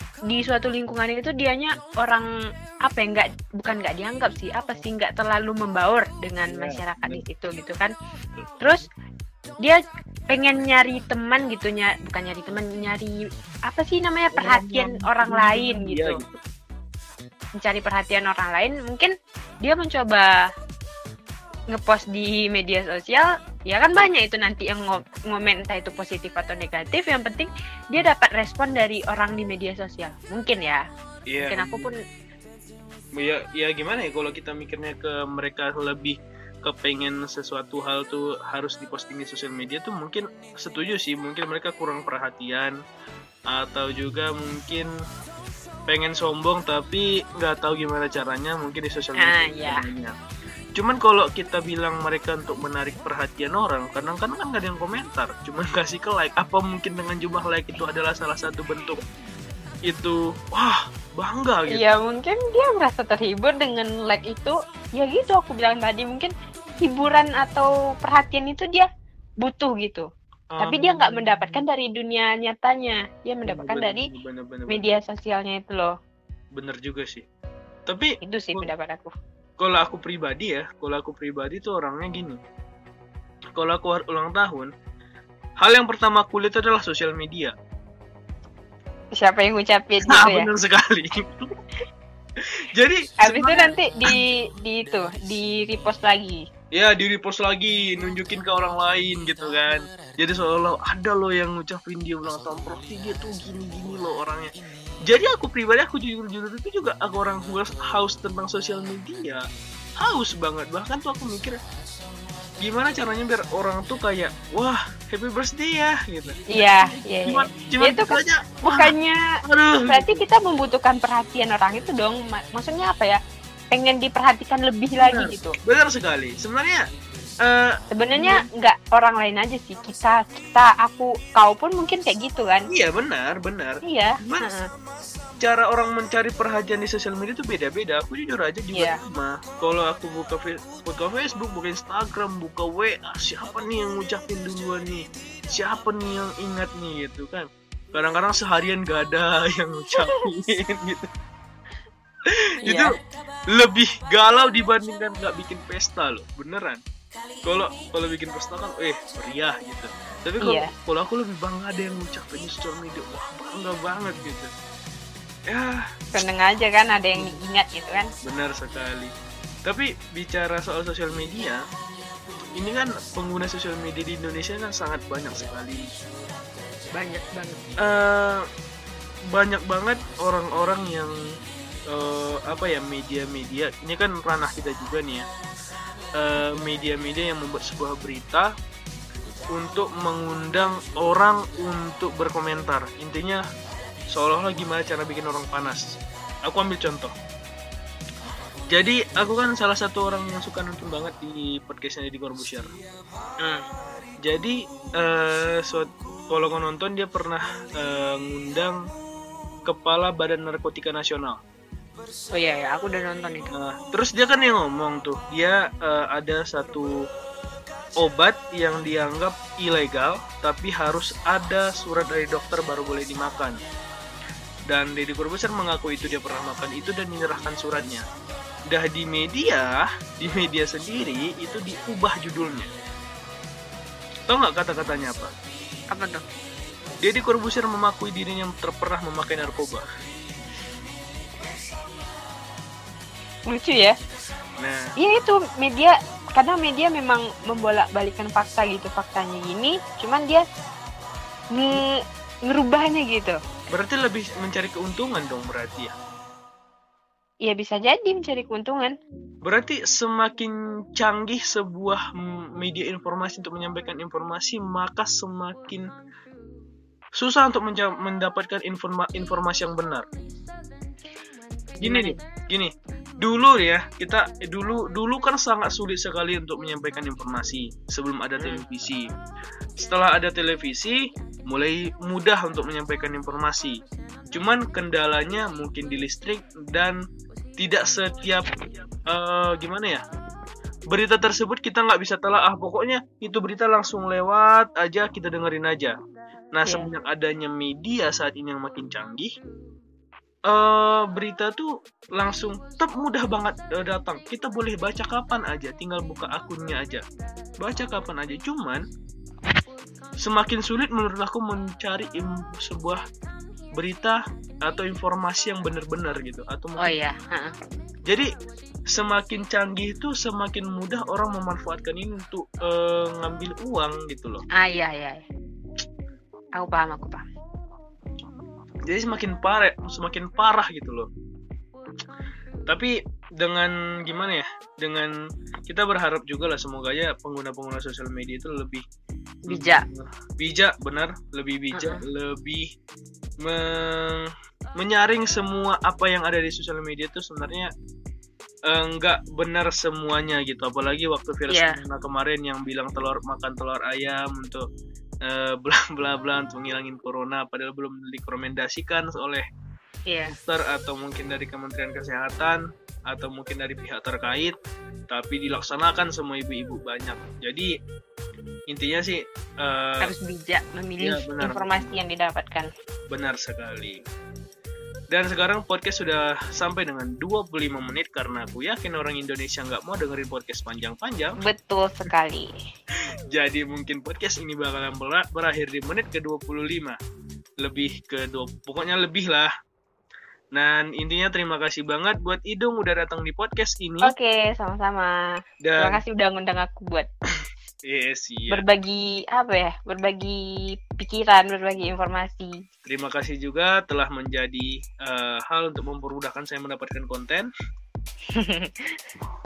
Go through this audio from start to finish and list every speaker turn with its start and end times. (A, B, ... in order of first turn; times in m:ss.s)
0:00.3-0:02.3 A
0:02.9-0:07.9 A
0:06.5-0:07.2 B
0:08.4-0:08.7 B
0:09.6-0:13.2 A
0:13.7-0:16.2 A
0:14.3-0:16.4 B
0:17.6-0:19.1 A
0:19.6-0:20.3 A
0:21.7-0:30.8 A
0:31.3-0:31.9 B
0:31.4-0:32.0 A
0:33.2-0:42.8 B
0:43.5-0:44.9 B
0:45.9-0:50.1 B
0:49.2-0:49.9 A
0:50.8-0:59.0 B
0:59.9-1:01.9 B
1:01.7-1:06.3 A
1:06.8-1:08.9 A
1:09.4-1:10.1 A
1:10.5-1:11.6 B
1:10.6-1:14.1 A
1:13.5-1:14.9 B
1:14.7-1:15.9 A
1:16.6-1:17.2 B
1:17.9-1:18.7 B
1:18.2-1:19.1 A
1:19.6-1:22.4 B
1:23.6-1:24.7 B
1:25.6-1:27.5 B
1:29.2-1:30.5 A
1:30.1-1:31.3 B
1:32.7-1:33.8 B
1:33.2-1:36.4 A
1:36.8-1:44.5 B
1:45.1-1:49.4 B
1:50.0-1:51.6 B
1:52.6-1:58.9 B
1:56.5-1:59.2 A
1:59.4-2:00.2 B
1:59.9-2:03.2 A
2:03.7-2:05.6 A
2:05.0-2:06.8 B
2:07.4-2:08.4 B
2:07.9-2:12.7 A
2:12.7-2:14.5 B
2:13.8-2:14.6 A
2:15.4-2:31.1 B
2:18.7-2:19.0 A
2:32.3-2:32.9 B
2:32.7-2:32.9 A
2:33.5-2:36.8 B
2:37.5-2:44.5 B
2:40.4-2:40.7 A
2:45.5-2:45.8 B
2:46.1-2:48.1 A
2:48.2-2:49.1 B
2:49.6-2:51.6 B
2:52.6-2:55.9 B
2:56.9-2:57.6 A
2:57.8-2:58.4 B
2:59.3-3:01.2 B
3:01.9-3:05.2 B
3:06.2-3:08.5 B
3:06.4-3:06.6 A
3:09.5-3:13.4 B
3:14.1-3:15.8 B
3:16.5-3:17.1 B
3:18.7-3:22.7 B
3:24.2-3:28.8 B
3:29.6-3:31.4 B
3:32.4-3:33.5 A
3:33.5-3:36.9 B
3:38.0-3:43.6 B
3:44.7-3:48.0 B
3:48.7-3:52.7 B
3:54.3-3:55.3 B
3:55.9-3:56.2 A
3:57.0-3:59.8 B
4:03.5-4:04.0 A
4:04.6-4:04.9 B
4:05.0-4:10.5 A
4:11.5-4:12.0 A
4:12.5-4:13.4 A
4:13.7-4:15.9 B
4:17.4-4:18.9 A
4:19.4-4:25.9 B
4:27.2-4:30.1 B
4:31.8-4:32.2 A
4:31.8-4:39.1 B
4:39.8-4:43.8 B
4:44.3-4:47.0 B
4:47.6-4:48.5 B
4:49.1-4:50.0 B
4:50.9-4:55.9 B
4:56.5-4:59.3 B
5:00.5-5:07.0 B
5:07.6-5:08.8 B
5:10.2-5:13.0 B
5:13.8-5:16.9 B
5:16.8-5:17.5 A
5:18.9-5:24.4 B
5:24.6-5:25.2 A
5:26.6-5:27.2 A
5:28.9-5:31.1 B
5:32.7-5:35.1 B
5:35.6-5:38.8 B
5:39.5-5:39.8 A
5:39.5-5:42.7 B
5:41.7-5:42.0 A
5:43.4-5:47.7 B
5:48.7-5:54.6 B
5:51.5-5:51.8 A
5:55.2-5:59.4 B
6:00.1-6:00.3 A
6:00.3-6:04.6 B
6:05.1-6:07.7 B
6:08.7-6:10.1 B
6:10.0-6:12.7 A
6:11.0-6:11.9 B
6:13.1-6:14.0 B
6:15.1-6:21.4 B
6:21.4-6:22.5 A
6:23.3-6:27.0 B
6:27.6-6:29.5 B
6:30.6-6:34.1 B
6:34.0-6:35.1 A
6:35.6-6:36.0 B
6:35.8-6:37.1 A
6:37.9-6:38.6 B
6:38.5-6:40.4 A
6:41.0-6:42.5 A
6:42.8-6:47.5 B
6:48.4-6:49.0 A